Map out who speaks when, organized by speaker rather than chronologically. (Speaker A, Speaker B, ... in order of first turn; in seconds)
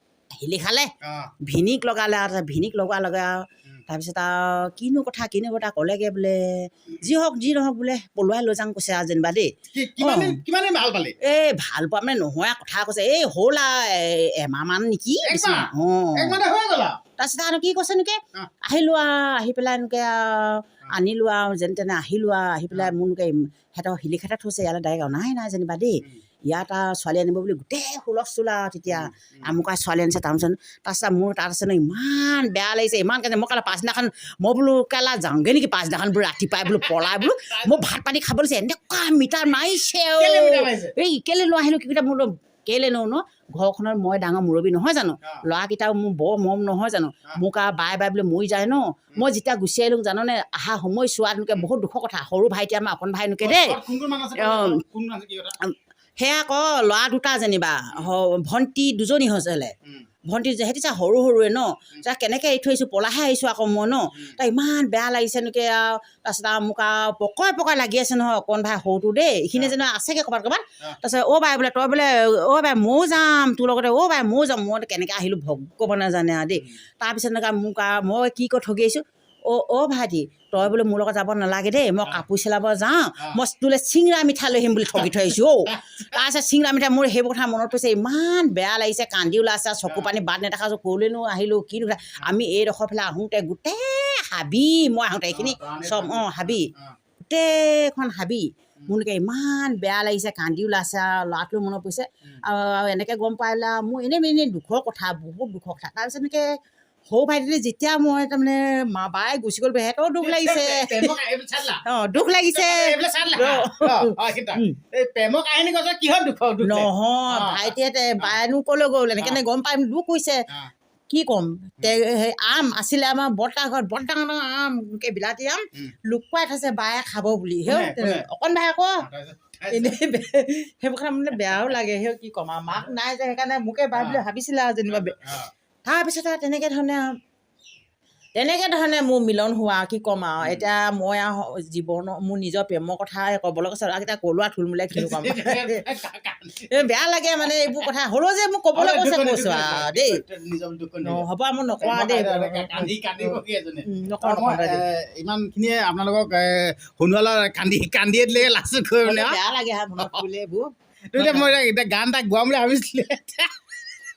Speaker A: 0.3-0.9, 1.4-10.4, 11.2-16.4, 17.2-53.8, 54.4-54.8, 55.6-59.7, 60.3-96.7, 97.2-106.4, 107.1-111.1, 111.9-114.8, 116.6-120.4, 121.1-129.0, 129.7-135.2, 135.8-137.1, 138.3-145.8, 146.7-150.2, 151.0-154.8, 159.0-161.6
Speaker B: 1.0-1.3, 9.7-11.1, 15.2-17.0, 28.9-29.5, 36.7-37.8, 40.2-40.9, 53.4-55.6, 84.9-86.1, 95.3-97.0, 110.2-111.8, 112.5-118.4, 127.7-128.2, 129.0-129.9, 131.3-131.7, 133.9-134.2, 134.9-135.5, 140.4-140.7, 144.9-146.8, 147.4-147.8, 148.7-151.2, 151.8-159.3, 161.1-163.5